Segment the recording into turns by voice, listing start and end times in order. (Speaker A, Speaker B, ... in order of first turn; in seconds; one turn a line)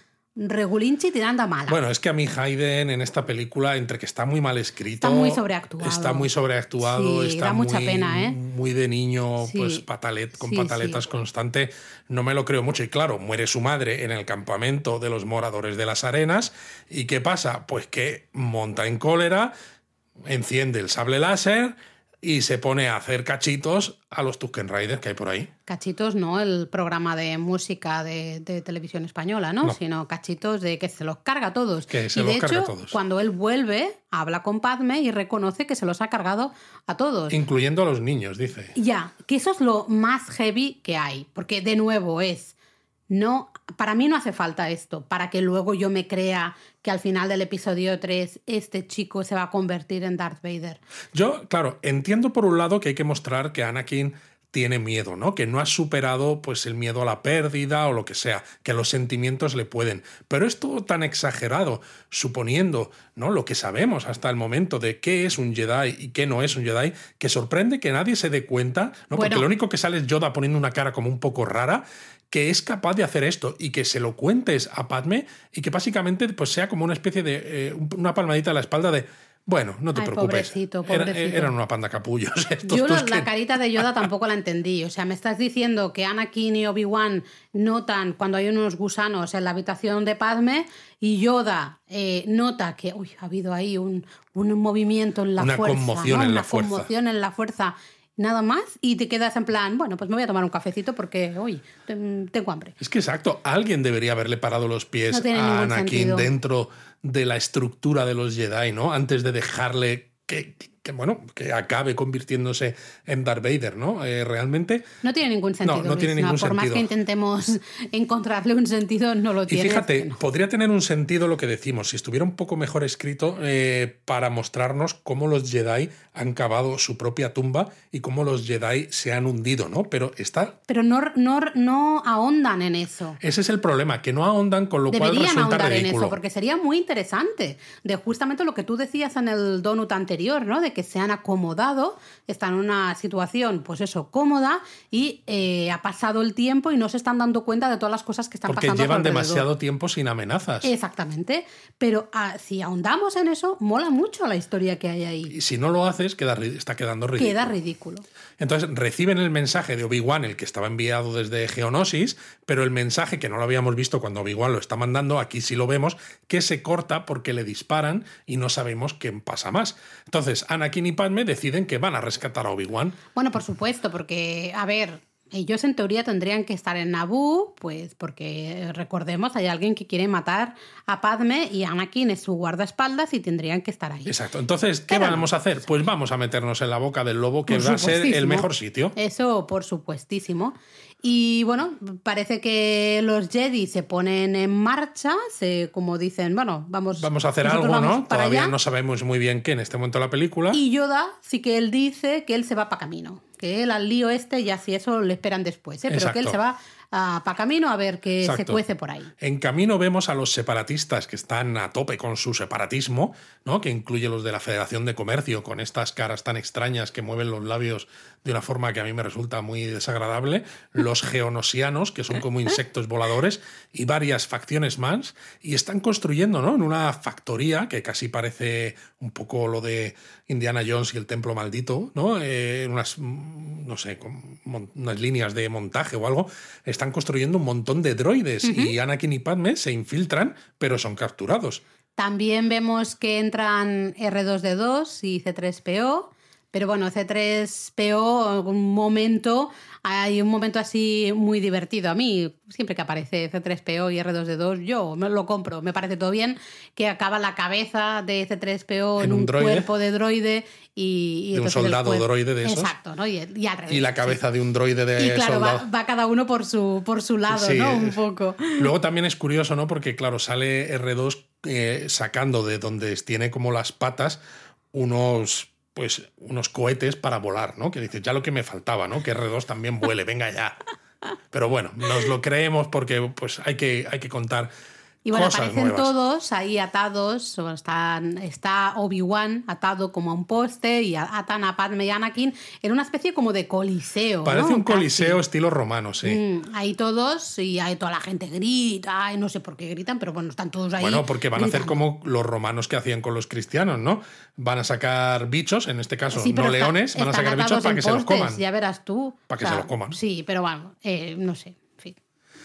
Speaker A: 0.4-1.8
Speaker B: 1.7-19.5
Speaker A: 5.0-8.4
Speaker A: 9.4-9.8
Speaker A: 10.4-11.0
Speaker B: 20.3-25.5
Speaker A: 25.7-37.4
Speaker B: 31.9-33.0
Speaker B: 37.3-38.7
Speaker A: 38.8-42.5
Speaker A: 43.1-50.8
Speaker B: 51.1-84.1
Speaker A: 69.1-69.5
Speaker A: 80.0-81.5
Speaker A: 82.6-102.8
Speaker B: 95.4-96.9
Speaker B: 102.8-114.9
Speaker A: 105.1-106.3
Speaker A: 115.0-120.2
Speaker B: 115.6-116.9
Speaker B: 119.5-130.6
Speaker A: 130.7-133.2
Speaker B: 133.2-136.2
Speaker A: 134.9-149.5
Speaker B: 148.5-150.7
Speaker A: 150.6-155.3
Speaker B: 155.3-157.6
Speaker A: 157.2-158.1
Speaker B: 158.4-173.0
Speaker A: 173.2-184.2
Speaker B: 184.1-188.9
Speaker A: 184.9-185.3
Speaker A: 187.5-198.6
Speaker B: 197.0-200.6
Speaker A: 200.5-209.1
Speaker B: 205.9-206.4
Speaker B: 208.2-208.6
Speaker B: 209.2-241.6
Speaker A: 238.4-238.7
Speaker A: 242.0-264.2
Speaker B: 259.0-259.7
Speaker B: 261.4-262.7
Speaker B: 263.7-265.6
Speaker A: 265.0-268.7
Speaker B: 267.3-268.0
Speaker B: 268.6-274.2
Speaker B: 274.7-280.6
Speaker B: 281.3-284.5
Speaker A: 285.1-295.2
Speaker B: 285.1-285.9
Speaker B: 294.2-296.2
Speaker A: 296.0-301.8
Speaker B: 300.8-308.4
Speaker A: 306.1-312.0
Speaker B: 309.3-310.0